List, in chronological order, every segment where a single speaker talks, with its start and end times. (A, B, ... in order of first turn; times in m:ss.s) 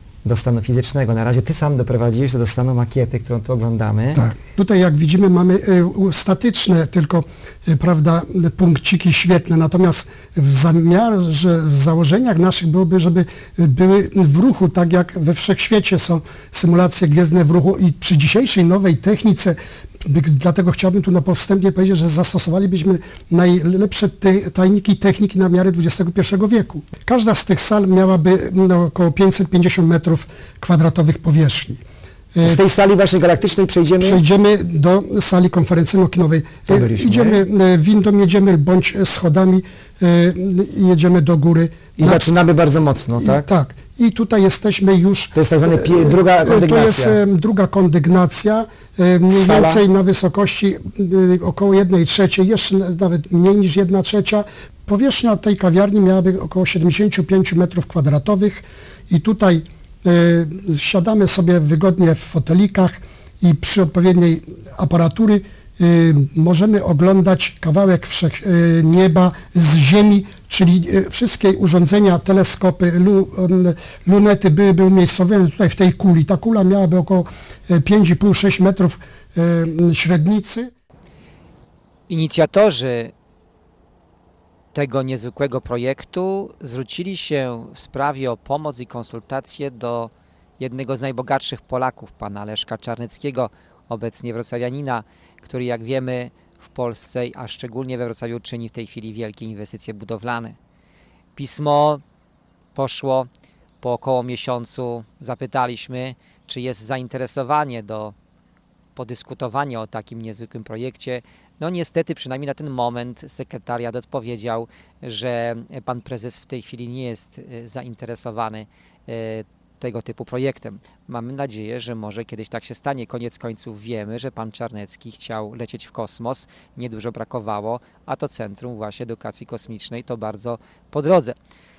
0:00.3-0:04.0 A
0:00.3-0:03.8 B
0:04.1-0:32.6 C
0:32.4-0:34.2 B
0:34.0-0:42.3 C
0:36.7-0:37.3 B
0:36.8-0:37.4 A
0:42.0-0:43.5 B
0:43.1-1:20.7 C
0:45.3-0:47.2 B
0:45.5-0:47.0 A
0:49.3-0:49.6 B
1:22.1-1:23.1 A
1:24.7-1:40.6 A
1:41.4-1:42.0 A
1:42.7-1:43.3 A
1:43.8-1:48.1 A
1:49.0-2:11.4 A